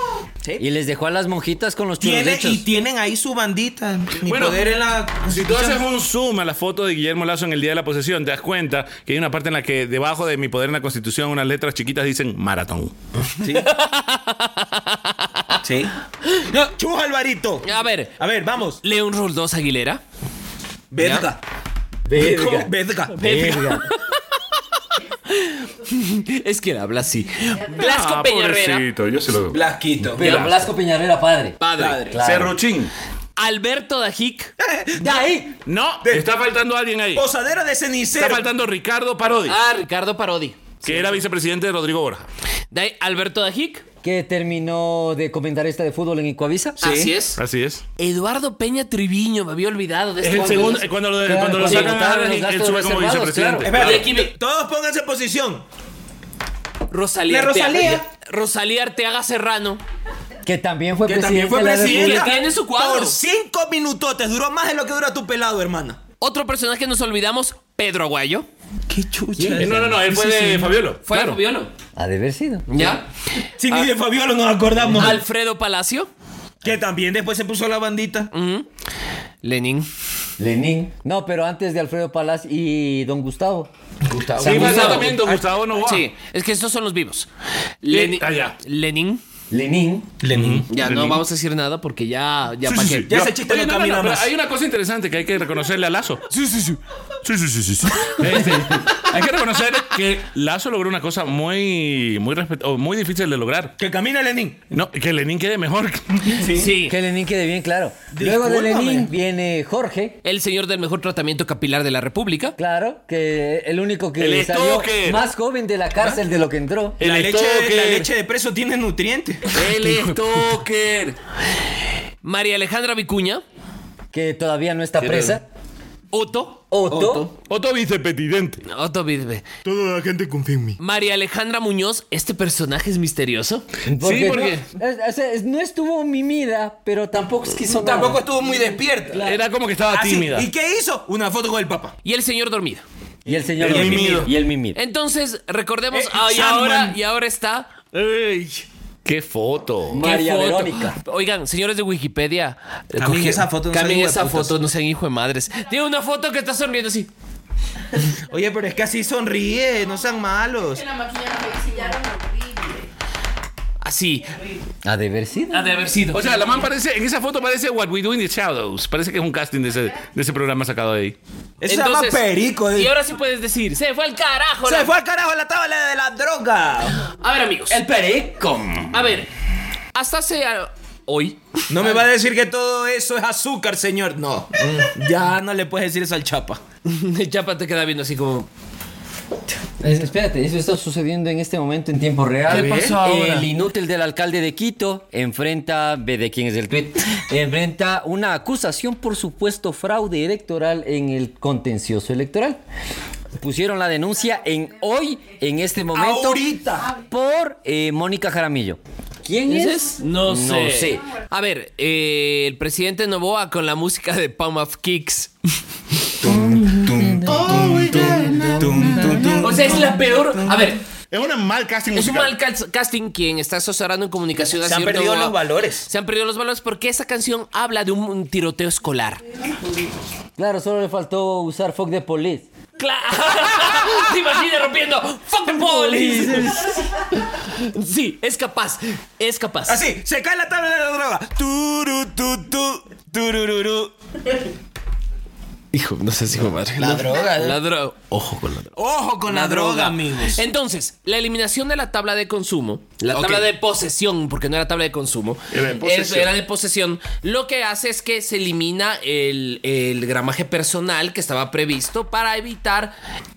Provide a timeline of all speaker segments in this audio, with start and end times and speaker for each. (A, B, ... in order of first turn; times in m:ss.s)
0:00.6-0:02.6 A
0:02.0-0:05.8 B
0:04.2-0:04.6 C
0:05.2-0:12.9 C
0:13.4-0:13.7 B
0:13.4-0:15.6 D
0:15.6-0:18.8 B
0:17.6-0:18.1 D
0:18.8-0:20.0 D
0:20.9-0:21.4 B
0:21.0-0:21.2 D
0:22.1-0:23.9 A
0:22.1-0:23.7 B
0:23.2-0:24.4 D
0:25.3-0:28.8 D
0:27.7-0:29.6 C
0:29.5-0:30.2 B
0:30.0-0:32.5 A
0:30.2-0:30.7 C
0:31.6-0:32.0 D
0:31.8-0:32.2 B
0:32.2-0:32.9 C
0:33.4-0:34.5 D
0:34.6-0:35.4 B
0:35.0-0:35.5 A
0:35.6-0:37.2 C
0:36.0-0:36.3 B
0:37.1-0:38.5 B
0:38.1-0:39.6 C
0:39.4-0:41.1 D
0:40.8-0:42.2 C
0:42.7-0:43.8 D
0:44.0-0:46.8 A
0:46.8-0:47.4 D
0:46.8-0:47.1 B
0:47.4-0:47.8 C
0:48.0-0:50.9 D
0:50.2-0:54.0 C
0:50.4-0:53.7 A
0:51.6-0:52.0 D
0:53.6-0:55.6 B
0:53.8-0:54.3 D
0:56.9-0:59.8 D
0:57.3-0:58.0 B
1:00.4-1:02.4 A
1:01.0-1:06.0 B
1:01.8-1:03.2 D
1:06.2-1:08.5 D
1:08.9-1:10.0 B
1:09.4-1:10.0 A
1:09.6-1:11.4 C
1:10.2-1:11.7 D
1:12.0-1:13.0 A
1:12.7-1:13.0 D
1:13.6-1:15.2 B
1:14.9-1:16.1 D
1:16.6-1:18.3 B
1:18.3-1:18.7 D
1:19.4-1:19.9 D
1:20.4-1:23.7 A
1:24.1-1:25.4 B
1:24.4-1:25.2 D
1:24.4-1:26.1 C
1:25.7-1:27.3 D
1:27.8-1:29.2 D
1:27.9-1:28.6 C
1:29.5-1:30.1 A
1:30.2-1:30.7 B
1:30.3-1:31.2 C
1:30.7-1:33.1 D
1:32.6-1:36.2 C
1:33.1-1:34.3 B
1:37.2-1:43.7 C
1:38.3-1:38.9 A
1:43.8-1:44.6 B
1:44.7-1:46.4 C
1:46.4-1:46.7 B
1:46.5-1:47.0 D
1:46.8-1:50.2 A
1:48.1-1:49.1 B
1:50.2-1:52.6 D
1:52.6-1:57.0 A
1:54.2-1:55.2 C
1:57.0-1:58.1 C
1:57.0-1:59.5 B
1:59.5-2:01.1 C
1:59.6-2:00.4 D
2:02.2-2:03.4 D
2:04.1-2:05.4 A
2:06.1-2:06.6 D
2:06.7-2:07.3 A
2:06.9-2:07.3 B
2:07.5-2:08.6 C
2:08.6-2:09.4 D
2:09.6-2:10.8 B
2:10.8-2:13.7 D
2:13.8-2:18.2 A
2:14.0-2:14.6 C
2:17.7-2:19.2 B
2:19.1-2:19.4 A
2:19.2-2:20.5 C
2:19.9-2:21.9 B
2:22.0-2:22.8 D
2:23.2-2:24.8 A
2:23.3-2:24.3 B
2:23.6-2:24.3 C
2:24.7-2:28.1 D
2:25.9-2:27.0 B
2:29.0-2:30.0 C
2:29.9-2:31.0 A
2:30.0-2:37.1 D
2:33.0-2:34.5 B
2:38.3-2:40.8 B
2:40.6-2:42.8 E
2:43.8-2:44.3 D
2:44.8-2:45.8 A
2:45.5-2:46.3 D
2:46.1-2:51.2 C
2:51.6-2:52.9 B
2:51.6-2:54.9 D
2:54.6-2:57.0 B
2:57.2-2:57.8 D
2:57.7-2:59.0 A
2:58.9-2:59.3 D
2:59.9-3:02.0 D
3:01.7-3:06.6 B
3:06.8-3:08.5 D
3:09.8-3:22.6 A
3:12.5-3:13.5 D
3:23.4-3:31.0 A
3:25.9-3:26.9 B
3:29.4-3:35.3 D
3:36.2-3:40.6 B
3:36.2-3:39.4 A
3:37.2-3:39.5 C
3:39.4-3:40.8 D
3:41.1-3:42.3 C
3:41.9-3:49.2 D
3:44.6-3:45.9 B
3:50.4-3:52.5 A
3:52.8-3:59.8 D
3:55.4-3:56.8 A
3:59.7-4:03.9 B
4:05.7-4:08.7 D
4:06.8-4:07.6 B
4:08.8-4:10.4 B
4:09.3-4:22.9 D
4:13.1-4:13.5 B
4:15.5-4:16.3 C